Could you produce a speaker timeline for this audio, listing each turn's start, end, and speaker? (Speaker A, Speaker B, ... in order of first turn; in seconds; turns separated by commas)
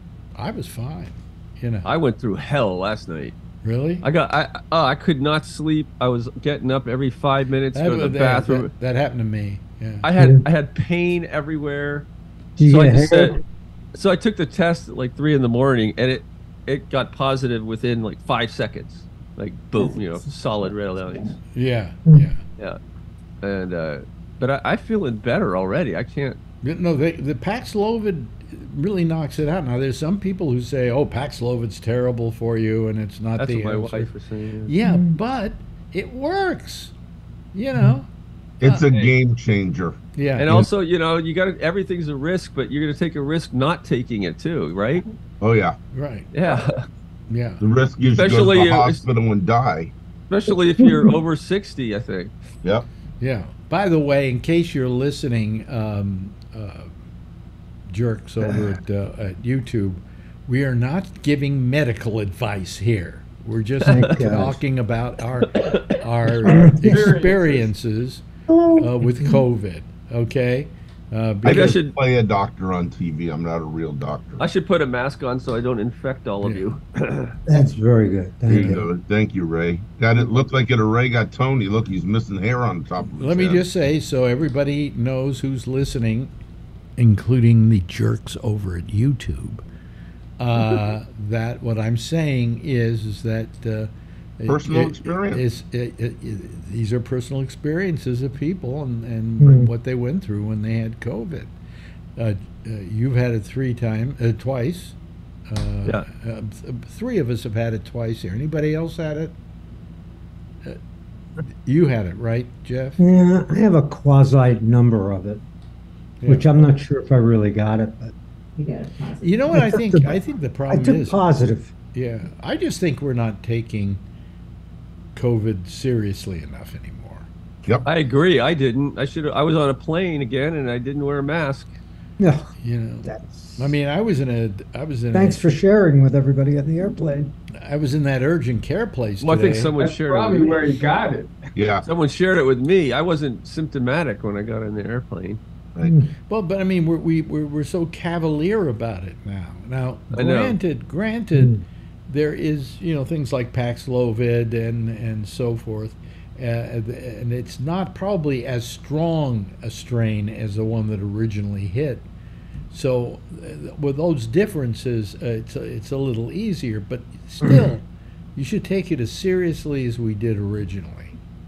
Speaker A: 0.4-1.9, Speaker B: 1.8-3.4, Speaker A: 3.6-4.1, Speaker B: 4.0-8.7, Speaker A: 7.7-10.1, Speaker B: 10.0-12.1, Speaker C: 10.1-10.5, Speaker C: 12.6-13.4, Speaker B: 12.6-13.4, Speaker B: 13.9-21.3, Speaker A: 21.5-22.4, Speaker C: 22.1-22.3, Speaker B: 23.4-26.4, Speaker A: 26.6-34.1, Speaker B: 33.4-34.7, Speaker A: 34.7-36.9, Speaker C: 34.8-35.2, Speaker A: 37.5-38.1, Speaker D: 38.6-40.6, Speaker A: 38.6-39.1, Speaker A: 40.1-40.6, Speaker B: 40.4-45.0, Speaker D: 45.4-45.8, Speaker A: 45.9-46.6, Speaker B: 46.3-46.9, Speaker A: 47.3-47.6, Speaker D: 47.6-49.9, Speaker B: 48.1-49.0, Speaker B: 50.3-52.3, Speaker C: 50.8-51.2, Speaker A: 53.2-57.0, Speaker A: 57.9-71.8, Speaker C: 63.8-64.6, Speaker B: 65.6-66.0, Speaker C: 66.4-67.2, Speaker E: 66.7-67.7, Speaker C: 68.5-69.5, Speaker D: 71.4-74.5, Speaker B: 71.5-71.9, Speaker B: 74.4-77.3, Speaker A: 76.4-76.7, Speaker C: 77.5-78.9, Speaker D: 78.5-83.7, Speaker A: 78.5-78.8, Speaker A: 80.2-80.4, Speaker A: 83.2-86.3, Speaker A: 87.0-89.7, Speaker A: 90.4-101.5, Speaker D: 94.5-95.4, Speaker C: 99.4-99.7, Speaker A: 102.2-105.0, Speaker A: 105.5-109.3, Speaker A: 111.6-113.0, Speaker C: 113.0-115.4, Speaker A: 116.2-116.7, Speaker C: 116.3-118.1, Speaker A: 119.2-121.2, Speaker C: 119.5-121.7, Speaker A: 121.9-124.0, Speaker A: 125.2-127.3, Speaker B: 127.9-131.7, Speaker C: 132.2-132.5, Speaker A: 132.6-135.5, Speaker C: 133.0-133.7, Speaker C: 135.1-137.3, Speaker A: 137.6-139.8, Speaker B: 139.2-140.7, Speaker E: 139.7-141.5, Speaker D: 141.6-141.9, Speaker B: 141.8-145.4, Speaker C: 145.8-146.1, Speaker A: 146.3-151.6, Speaker B: 150.1-150.6, Speaker C: 151.3-151.6, Speaker A: 152.1-162.1, Speaker A: 162.7-167.8, Speaker C: 167.4-167.7, Speaker A: 168.4-171.2